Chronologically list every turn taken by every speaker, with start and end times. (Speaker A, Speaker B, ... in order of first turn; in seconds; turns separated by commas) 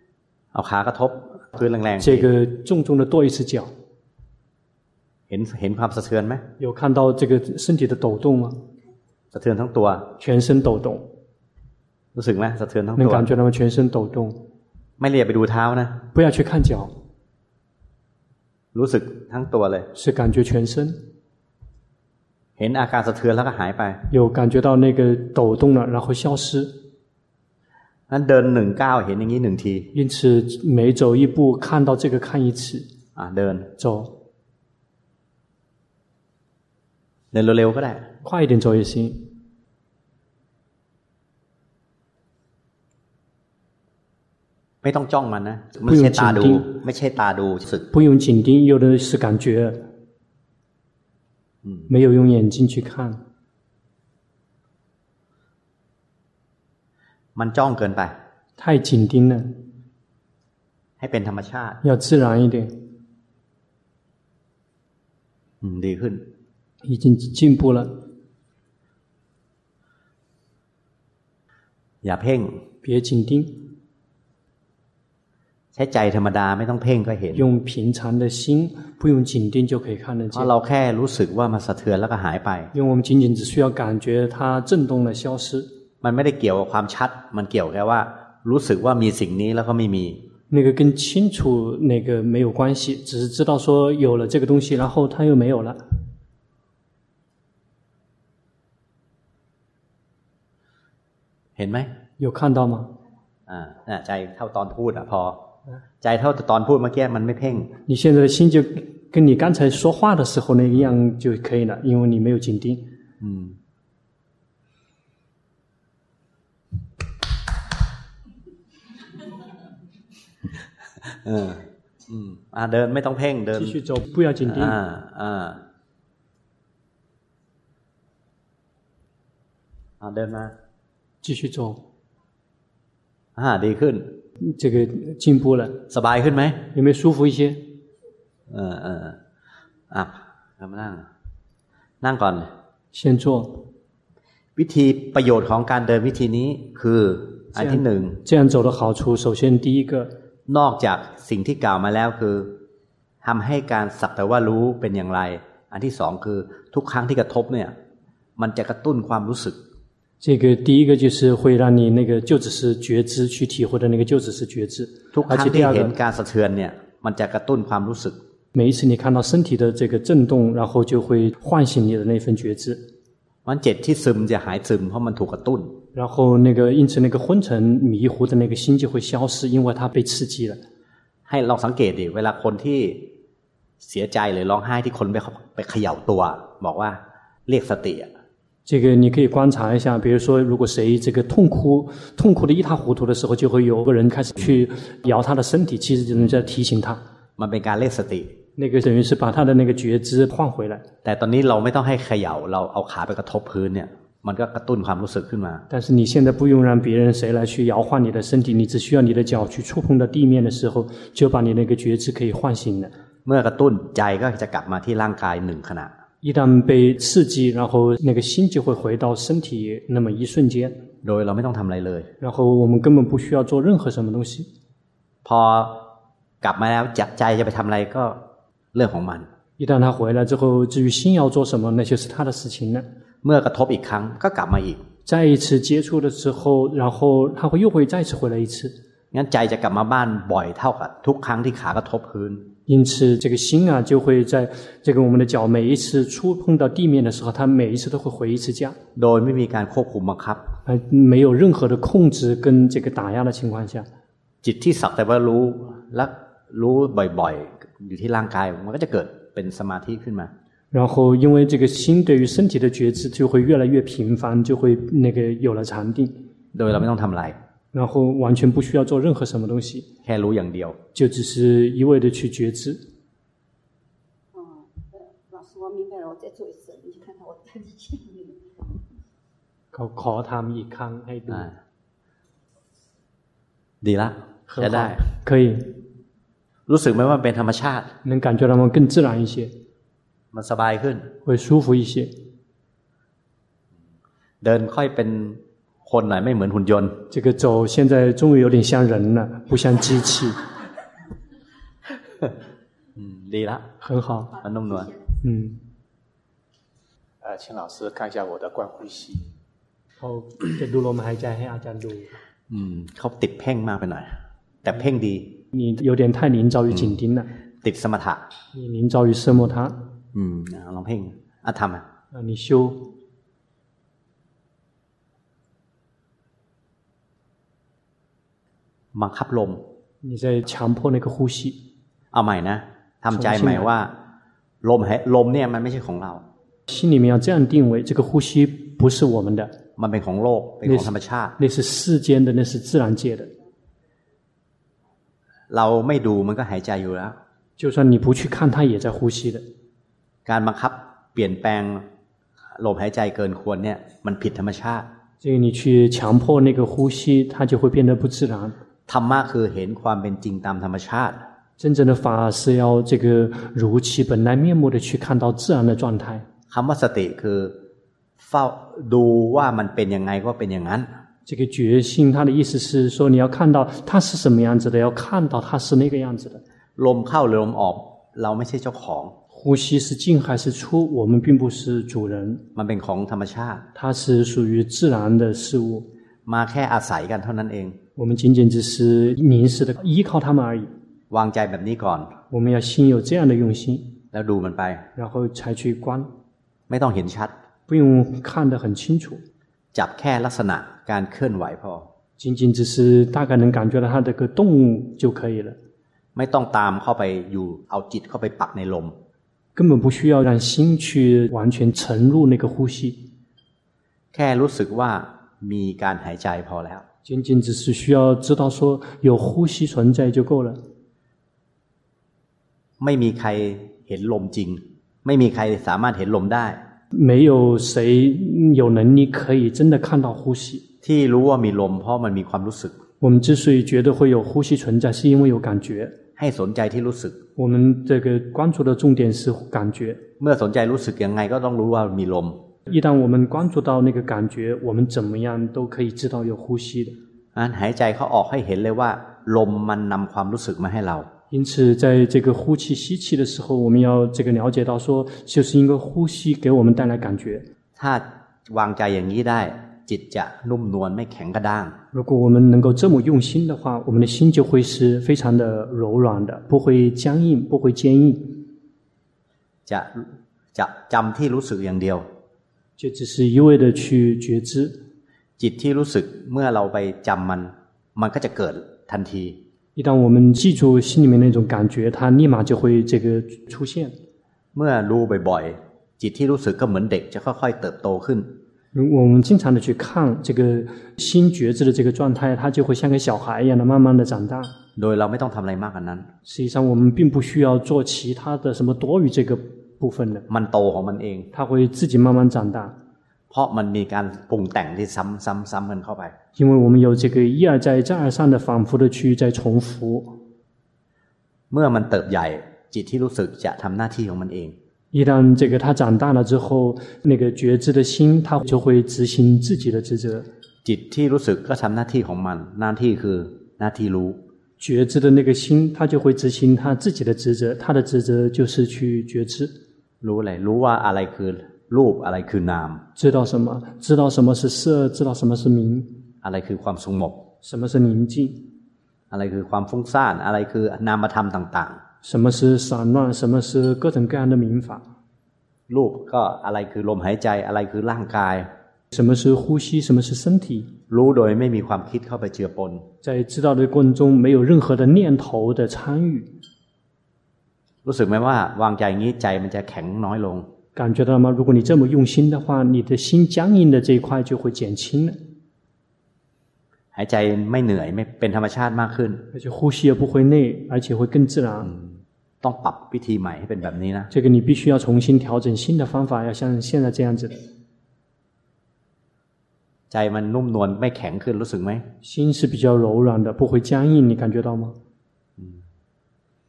Speaker A: 0.5-2.3, Speaker B: 2.0-3.7, Speaker A: 5.3-6.4, Speaker B: 6.6-8.6, Speaker A: 9.3-10.1, Speaker B: 10.2-11.1, Speaker A: 12.1-13.3, Speaker B: 13.0-14.3, Speaker A: 15.0-16.0, Speaker B: 16.1-16.9, Speaker A: 18.7-19.9, Speaker B: 19.9-21.0, Speaker A: 22.6-24.0, Speaker B: 24.1-26.7, Speaker A: 28.1-29.9, Speaker B: 29.9-32.9, Speaker A: 33.1-33.7, Speaker B: 33.8-34.1, Speaker A: 37.3-38.1, Speaker B: 38.2-39.3, Speaker A: 44.8-47.9, Speaker B: 45.9-46.7, Speaker B: 47.9-49.8, Speaker B: 51.9-53.2, Speaker A: 57.3-58.2, Speaker B: 58.6-59.5, Speaker A: 61.0-61.8, Speaker B: 61.8-62.7, Speaker A: 65.6-66.2, Speaker B: 66.8-67.9, Speaker A: 72.0-72.6, Speaker B: 72.8-73.5, Speaker A: 75.7-77.5, Speaker B: 77.3-80.5, Speaker A: 80.3-82.7, Speaker B: 82.7-85.7, Speaker A: 86.0-90.2, Speaker B: 90.5-95.8, Speaker A: 101.5-101.9, Speaker B: 102.2-102.9, Speaker A: 103.5-105.5, Speaker A: 106.0-107.7, Speaker B: 107.8-112.8, Speaker A: 113.2-113.6, Speaker A: 121.0-123.8, Speaker B: 123.5-124.8, Speaker A: 124.4-125.6, Speaker A: 130.0-130.5, Speaker B: 131.2-131.8, Speaker A: 133.3-134.2, Speaker B: 134.4-135.8, Speaker A: 135.9-136.6, Speaker B: 136.7-137.6, Speaker A: 138.5-139.2, Speaker A: 139.9-141.1, Speaker A: 142.0-142.5, Speaker B: 142.9-143.6, Speaker A: 144.6-148.2, Speaker B: 147.6-150.1, Speaker A: 150.5-152.6, Speaker A: 153.2-157.8, Speaker A: 158.4-159.6, Speaker B: 160.2-165.9, Speaker A: 165.1-168.2, Speaker B: 168.5-172.8, Speaker A: 173.4-175.8, Speaker B: 175.9-180.6, Speaker A: 181.3-183.1, Speaker A: 183.8-188.1, Speaker B: 188.7-197.0, Speaker A: 197.4-198.4, Speaker B: 198.6-200.8, Speaker A: 201.0-205.7, Speaker B: 205.7-212.9, Speaker A: 213.2-215.9, Speaker B: 216.2-220.8, Speaker A: 221.0-222.1, Speaker B: 222.2-224.5, Speaker A: 225.2-225.9, Speaker A: 226.4-229.3, Speaker B: 229.6-232.8, Speaker A: 233.2-234.8, Speaker B: 235.0-238.7, Speaker A: 239.1-242.5, Speaker B: 242.7-248.8, Speaker A: 248.9-250.4, Speaker B: 250.7-253.9, Speaker A: 254.4-260.3, Speaker B: 260.7-266.1, Speaker A: 266.5-267.4, Speaker B: 267.7-269.9, Speaker A: 270.0-270.8, Speaker B: 270.9-272.8, Speaker C: 274.3-278.4, Speaker B: 279.7-281.5, Speaker A: 283.8-285.0, Speaker B: 284.5-285.7, Speaker A: 286.7-287.9, Speaker B: 288.0-289.5, Speaker A: 290.3-291.1, Speaker B: 291.2-292.1, Speaker A: 294.4-297.0, Speaker B: 297.1-300.4, Speaker A: 302.9-303.7, Speaker B: 303.8-304.3, Speaker A: 304.4-304.9, Speaker B: 305.2-305.6, Speaker D: 307.2-309.3, Speaker B: 310.0-312.1, Speaker A: 312.5-315.4, Speaker B: 315.5-317.3, Speaker A: 317.6-318.3, Speaker B: 318.5-319.8, Speaker A: 320.1-321.9, Speaker B: 322.1-322.8, Speaker A: 328.9-329.6, Speaker B: 330.0-331.6, Speaker A: 332.1-333.9, Speaker B: 333.1-333.7, Speaker A: 334.6-336.2, Speaker B: 336.7-339.5, Speaker A: 339.8-341.4, Speaker B: 340.6-343.3, Speaker A: 345.5-347.2, Speaker B: 347.6-349.4, Speaker A: 350.2-351.9, Speaker A: 352.5-354.9, Speaker B: 355.2-358.6, Speaker A: 358.9-361.3, Speaker B: 361.6-366.2, Speaker A: 366.5-367.6, Speaker A: 368.2-370.9, Speaker B: 371.2-376.4, Speaker A: 376.8-379.1, Speaker B: 379.3-382.4, Speaker A: 382.5-383.6, Speaker B: 383.7-385.9, Speaker A: 386.2-387.8, Speaker B: 387.9-390.7, Speaker A: 391.1-392.2, Speaker B: 392.3-393.9, Speaker A: 394.1-394.9, Speaker B: 394.9-396.1, Speaker A: 396.7-397.3, Speaker B: 397.7-399.2, Speaker A: 399.7-401.9, Speaker B: 402.2-405.6, Speaker A: 406.1-409.0, Speaker B: 409.6-413.0, Speaker A: 414.1-416.8, Speaker B: 417.0-420.6, Speaker A: 422.8-426.6, Speaker B: 426.9-430.6, Speaker A: 430.8-432.8, Speaker B: 433.0-435.9, Speaker A: 436.1-437.2, Speaker B: 437.4-440.0, Speaker A: 440.2-442.4, Speaker B: 442.7-446.9, Speaker A: 447.3-451.1, Speaker B: 451.3-457.4, Speaker A: 457.8-461.8, Speaker B: 461.9-468.4, Speaker A: 469.6-472.1, Speaker B: 472.8-474.8, Speaker A: 475.4-479.4, Speaker B: 479.8-483.9, Speaker A: 484.5-488.4, Speaker B: 488.7-494.5, Speaker A: 494.8-496.1, Speaker B: 496.2-500.2, Speaker A: 500.3-501.3, Speaker B: 501.3-502.8, Speaker A: 503.3-506.1, Speaker B: 506.4-510.1, Speaker A: 511.5-514.6, Speaker B: 514.9-520.3, Speaker A: 520.6-524.2, Speaker B: 524.6-529.5, Speaker A: 530.0-532.8, Speaker B: 533.0-535.9, Speaker A: 536.2-537.2, Speaker B: 537.4-538.4, Speaker A: 539.1-541.8, Speaker B: 542.0-544.8, Speaker A: 545.7-548.5, Speaker B: 548.9-550.7, Speaker A: 550.9-552.9, Speaker B: 553.0-556.3, Speaker A: 557.8-560.5, Speaker B: 560.7-565.2, Speaker A: 566.9-569.2, Speaker B: 569.3-571.7, Speaker A: 571.6-574.1, Speaker B: 574.1-577.4, Speaker A: 579.9-581.9, Speaker B: 582.0-584.8, Speaker A: 585.4-585.6